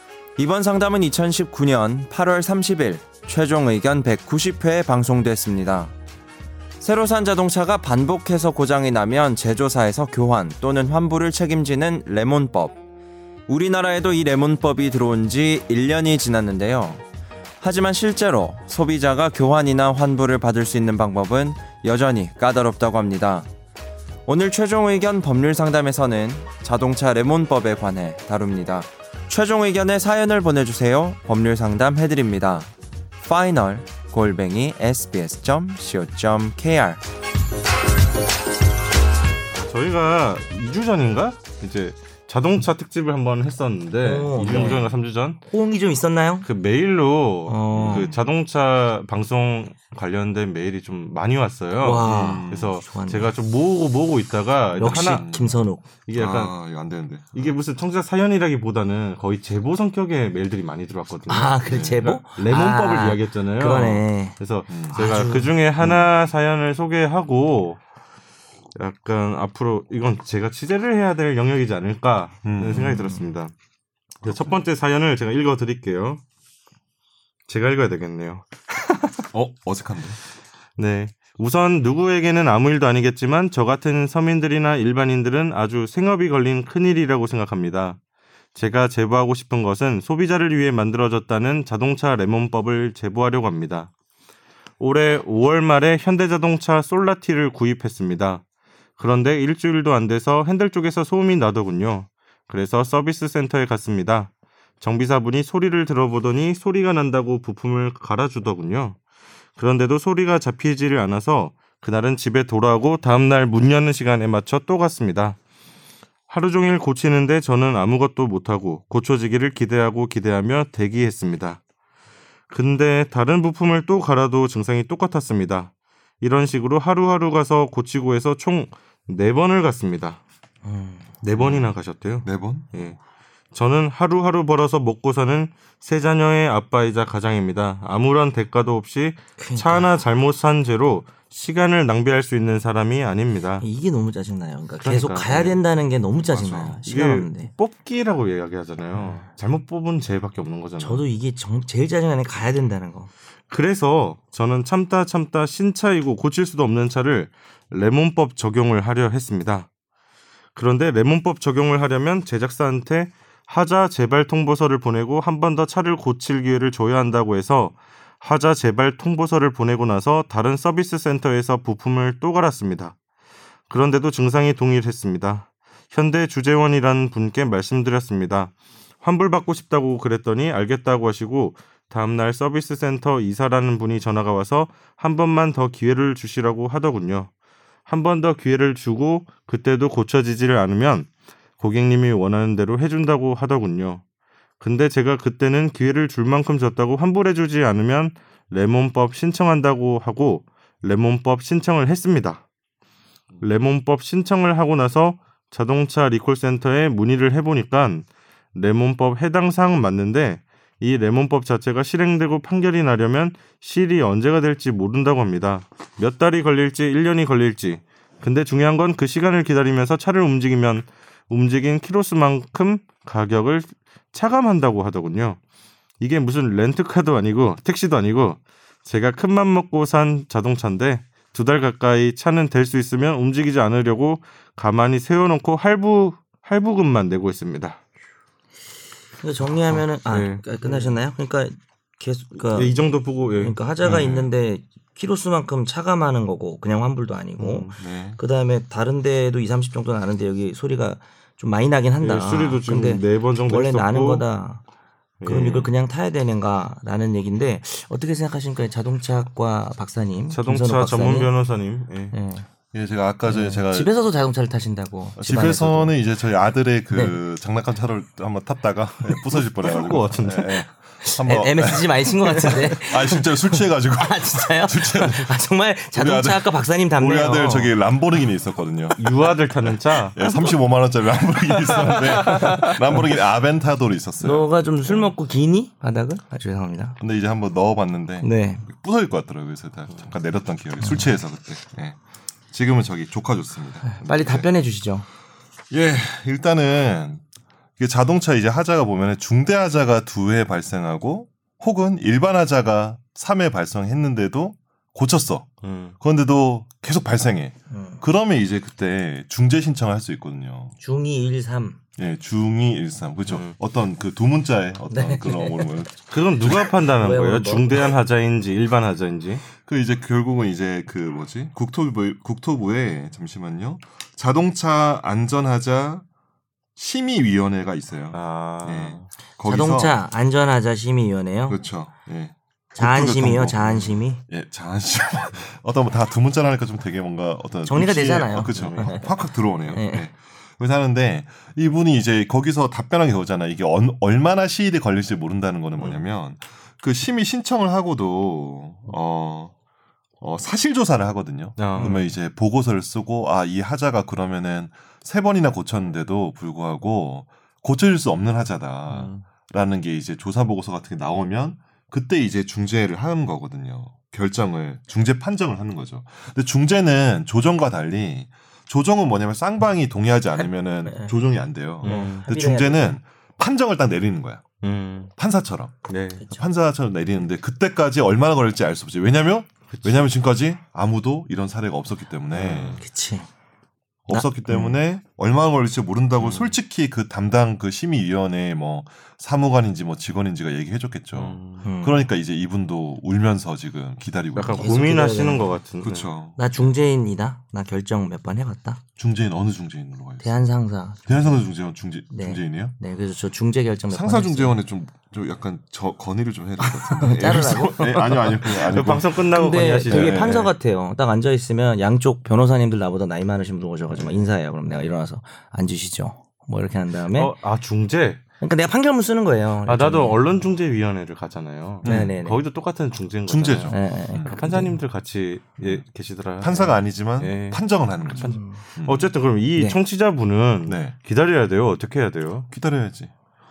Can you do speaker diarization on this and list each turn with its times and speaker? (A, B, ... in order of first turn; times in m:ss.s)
0:00.4-0:05.9 A
0:06.8-0:12.8 A
0:13.5-0:17.0 A
0:17.6-0:23.5 A
0:24.3-0:32.7 A
0:33.2-0:37.0 A
0:39.5-0:45.4 B
0:44.0-0:46.5 C
0:46.4-0:55.3 B
0:47.5-0:48.1 C
0:47.7-0:48.2 D
0:51.8-0:53.3 C
0:52.1-0:52.8 D
0:54.7-0:57.5 D
0:54.8-0:55.8 C
0:56.0-0:56.6 B
0:57.3-1:07.8 B
1:01.3-1:04.4 C
1:01.7-1:02.1 D
1:04.7-1:05.0 D
1:04.9-1:05.5 C
1:05.8-1:06.1 D
1:08.8-1:13.5 B
1:12.4-1:13.1 D
1:12.7-1:13.2 C
1:14.2-1:16.2 B
1:14.2-1:14.6 D
1:17.5-1:18.5 B
1:19.3-1:20.2 D
1:20.8-1:28.0 B
1:28.6-1:33.9 B
1:34.8-1:38.4 B
1:39.0-1:49.0 B
1:49.6-1:55.4 B
1:56.3-2:01.6 B
2:02.5-2:10.2 B
2:10.6-2:11.2 C
2:11.2-2:13.0 B
2:11.4-2:13.0 D
2:13.5-2:23.6 B
2:19.4-2:19.9 C
2:23.6-2:27.5 C
2:24.8-2:25.6 B
2:26.2-2:26.8 D
2:26.9-2:31.0 B
2:30.8-2:33.1 C
2:33.5-2:39.7 B
2:40.6-2:53.0 B
2:53.7-3:07.3 B
3:07.9-3:11.1 B
3:11.6-3:14.0 B
3:14.6-3:22.4 B
3:23.4-3:45.4 B
3:46.0-3:57.8 B
3:59.2-4:02.8 C
3:59.7-4:01.0 B
4:02.4-4:03.6 B
4:03.3-4:14.6 C
4:03.8-4:04.3 D
4:07.4-4:07.8 B
4:07.8-4:08.2 D
4:12.0-4:14.3 B
4:15.2-4:15.7 B
4:15.2-4:21.3 C
4:20.3-4:22.2 B
4:22.1-4:22.5 C
4:22.7-4:23.9 D
4:23.3-4:26.0 C
4:25.2-4:35.4 D
4:26.9-4:27.2 C
4:29.4-4:30.6 B
4:31.0-4:37.7 C
4:35.9-4:45.2 D
4:39.0-4:40.3 B
4:41.5-4:43.1 B
4:41.9-4:42.4 C
4:44.2-4:47.0 C
4:47.0-4:52.0 D
4:48.2-4:48.6 C
4:50.8-4:51.1 C
4:52.5-4:54.5 D
4:53.8-4:55.1 C
4:55.7-4:57.2 D
4:57.8-5:10.8 D
5:05.6-5:06.0 B
5:07.7-5:08.0 C
5:10.8-5:11.8 C
5:12.0-5:16.6 D
5:13.3-5:13.6 B
5:14.9-5:15.7 C
5:16.1-5:19.4 B
5:16.9-5:17.9 C
5:19.5-5:26.0 D
5:26.8-5:30.0 D
5:28.1-5:29.1 B
5:29.4-5:31.6 C
5:31.5-5:49.5 D
5:32.8-5:34.2 C
5:37.7-5:40.1 C
5:38.5-5:38.9 B
5:50.2-6:14.4 D
5:51.6-5:52.0 B
5:58.9-5:59.2 B
6:10.4-6:11.2 C
6:11.8-6:12.3 B
6:11.8-6:13.0 C
6:14.6-6:15.1 B
6:15.2-6:22.8 D
6:15.9-6:16.2 B
6:19.7-6:20.2 B
6:22.3-6:22.8 B
6:22.8-6:23.3 C
6:24.1-6:34.8 D
6:24.1-6:24.7 C
6:26.2-6:26.6 B
6:31.1-6:31.7 B
6:31.6-6:32.1 C
6:34.4-6:36.1 B
6:34.6-6:35.6 C
6:35.8-6:36.7 D
6:36.4-6:38.8 C
6:39.0-6:40.4 D
6:40.2-6:41.5 C
6:41.1-6:42.8 D
6:42.1-6:44.6 C
6:43.9-6:50.5 D
6:46.6-6:48.7 C
6:48.5-6:50.5 B
6:49.3-6:57.3 C
6:53.9-6:54.2 B
6:57.1-6:58.2 B
6:58.4-7:00.2 C
6:59.7-7:12.5 B
7:01.8-7:02.2 D
7:01.8-7:02.4 C
7:03.3-7:04.4 D
7:03.7-7:04.8 C
7:06.4-7:09.1 D
7:08.2-7:08.6 C
7:09.6-7:09.8 C
7:10.7-7:11.0 D
7:12.5-7:13.1 D